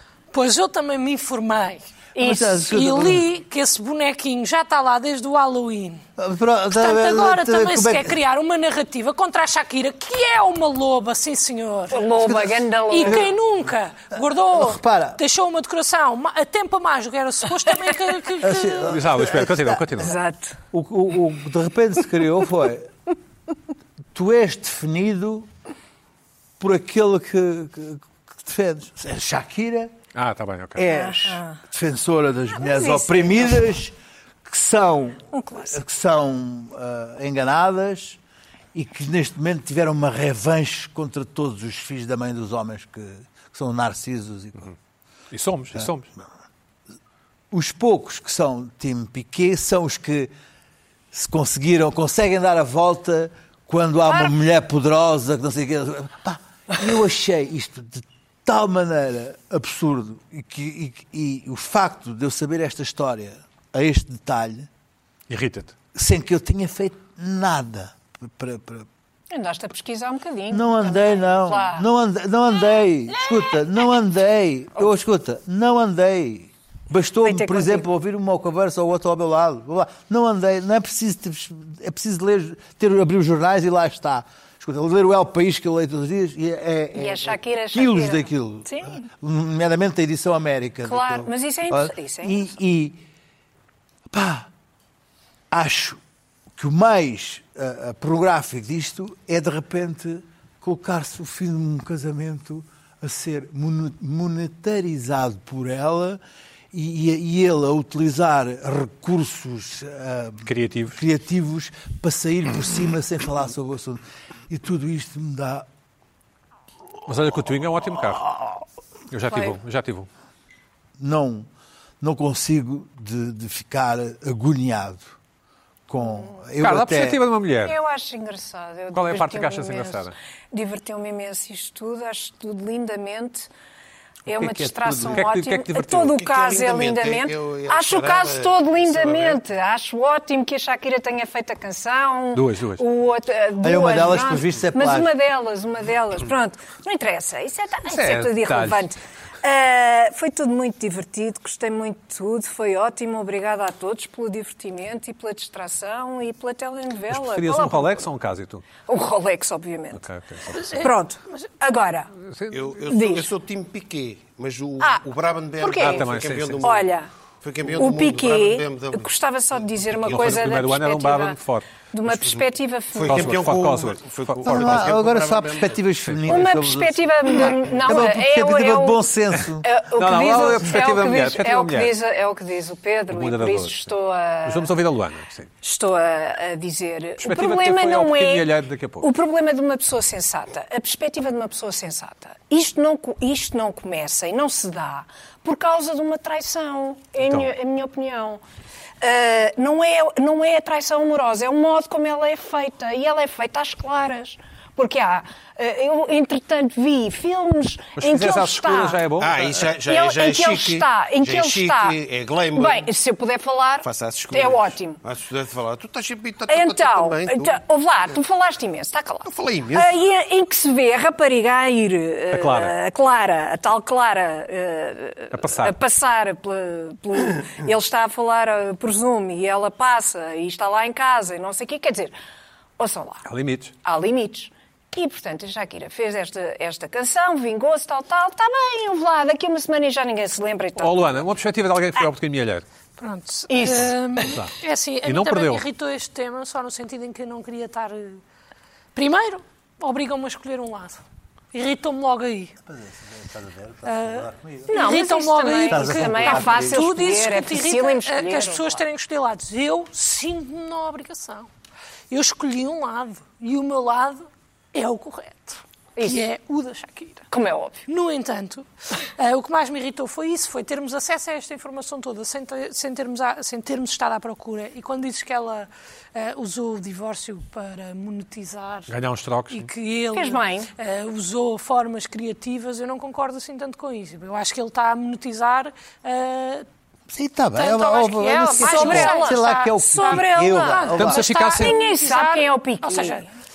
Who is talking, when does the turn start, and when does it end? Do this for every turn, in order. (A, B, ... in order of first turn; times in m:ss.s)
0:00.3-0:01.8 A
0:02.2-0:02.5 B
0:02.2-0:03.3 C
0:02.5-0:06.0 A
0:06.2-0:08.2 C
0:06.7-0:12.4 A
0:11.9-0:13.3 B
0:12.2-0:13.3 C
0:12.9-0:19.0 A
0:14.5-0:15.2 C
0:18.4-0:20.1 C
0:18.8-0:20.1 D
0:20.0-0:20.6 B
0:20.7-0:22.9 C
0:24.1-0:25.5 C
0:26.6-0:29.9 C
0:30.1-0:30.8 D
0:30.8-0:33.9 C
0:30.9-0:31.6 B
0:32.6-0:33.6 B
0:34.4-0:38.2 C
0:35.3-0:35.8 B
0:38.7-0:44.7 C
0:45.3-0:46.1 D
0:47.5-0:50.3 C
0:51.1-1:04.7 C
1:05.3-1:05.7 D
1:05.9-1:08.9 C
1:09.3-1:11.8 B
1:10.5-1:33.0 C
1:17.2-1:17.8 B
1:26.9-1:29.0 B
1:30.8-1:32.4 B
1:34.1-1:34.5 C
1:35.5-1:36.0 C
1:36.6-1:46.2 C
1:46.7-1:55.7 C
1:50.4-1:51.0 D
1:57.0-1:58.3 D
1:59.1-2:00.1 D
2:01.0-2:01.5 C
2:02.0-2:05.1 C
2:05.9-2:07.2 C
2:06.6-2:07.8 D
2:07.6-2:13.5 B
2:08.9-2:10.1 D
2:14.3-2:38.0 B
2:14.4-2:16.2 D
2:14.4-2:15.2 C
2:16.2-2:19.4 E
2:22.3-2:22.8 D
2:23.6-2:25.1 C
2:27.8-2:28.8 D
2:37.1-2:38.6 D
2:38.8-2:40.0 B
2:39.9-2:40.9 D
2:40.5-2:42.1 B
2:42.2-2:42.7 D
2:42.5-2:49.1 E
2:42.9-2:43.3 B
2:45.6-2:46.1 B
2:45.8-2:46.7 D
2:46.6-2:47.1 B
2:47.7-2:51.4 B
2:50.0-2:51.6 D
2:51.9-2:53.4 B
2:52.1-2:52.4 E
2:52.9-2:55.8 E
2:53.0-2:54.9 D
2:54.4-2:59.7 C
2:56.2-2:59.0 B
2:59.6-3:04.7 B
2:59.9-3:01.9 D
3:03.1-3:03.9 D
3:04.4-3:05.5 D
3:05.6-3:18.4 B
3:07.2-3:09.1 D
3:17.2-3:17.5 D
3:19.0-3:29.0 B
3:28.0-3:29.6 D
3:29.1-3:32.8 E
3:29.8-3:32.0 B
3:32.5-3:35.0 B
3:33.8-3:37.6 E
3:36.5-3:52.2 B
3:39.2-3:40.0 E
3:42.3-3:42.7 D
3:45.3-3:45.8 D
3:52.8-3:53.2 B
3:53.2-3:53.7 D
3:53.8-4:01.2 B
4:00.8-4:02.6 D
4:03.0-4:08.2 A
4:03.5-4:04.2 B
4:04.2-4:04.5 D
4:05.0-4:05.6 D
4:08.9-4:11.0 A
4:11.5-4:12.5 A
4:12.7-4:14.8 C
4:13.8-4:21.5 A
4:14.7-4:18.7 B
4:15.7-4:17.0 C
4:22.1-4:27.2 A
4:27.3-4:27.8 B
4:27.9-4:38.9 A
4:38.9-4:39.7 D
4:39.5-4:46.6 A
4:40.1-4:40.7 B
4:47.1-4:51.2 C
4:47.6-4:53.2 A
4:48.6-4:53.3 B
4:51.0-4:51.8 D